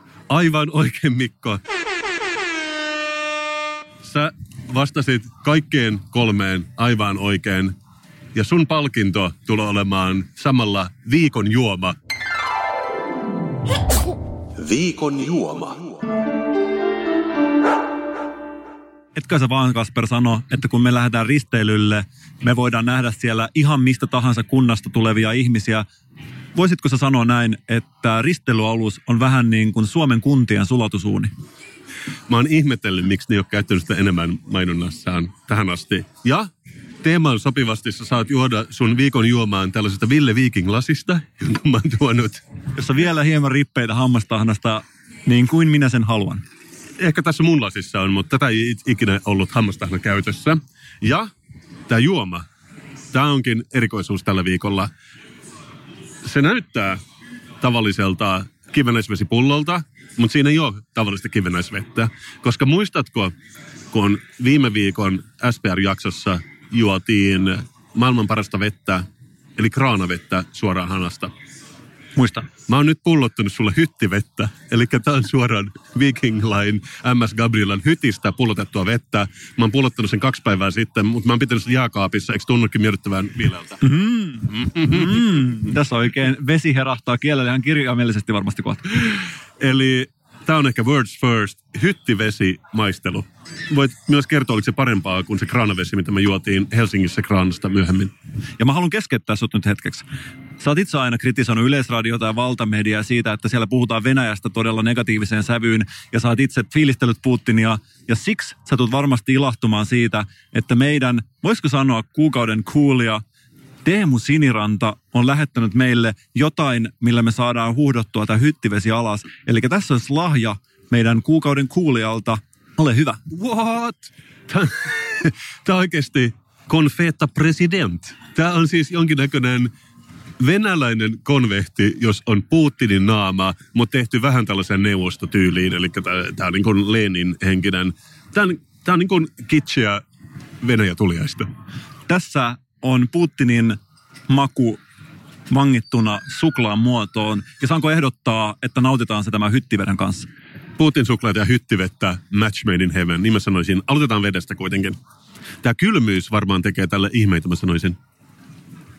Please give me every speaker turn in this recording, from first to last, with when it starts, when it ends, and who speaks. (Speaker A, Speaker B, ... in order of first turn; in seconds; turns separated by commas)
Speaker A: 0.3-1.6, Speaker A: 4.0-7.7, Speaker A: 8.3-11.9, Speaker A: 14.6-15.9, Speaker B: 19.1-25.8, Speaker B: 26.6-31.3, Speaker A: 32.3-36.5, Speaker A: 37.0-42.4, Speaker B: 42.8-46.4, Speaker A: 47.0-51.3, Speaker A: 51.9-52.4, Speaker A: 53.1-54.9, Speaker A: 56.2-57.0, Speaker A: 57.6-63.3, Speaker A: 63.9-69.0, Speaker A: 69.6-71.3, Speaker B: 72.2-72.5, Speaker A: 72.7-83.8, Speaker B: 83.8-88.8, Speaker A: 84.5-85.3, Speaker A: 89.6-98.1, Speaker B: 98.6-100.0, Speaker B: 100.6-113.2, Speaker B: 113.8-123.2, Speaker A: 123.3-129.7, Speaker A: 130.4-140.0, Speaker A: 140.6-141.5, Speaker B: 142.1-143.8, Speaker B: 144.3-144.8, Speaker B: 145.5-150.3, Speaker A: 150.8-155.0, Speaker A: 155.6-158.0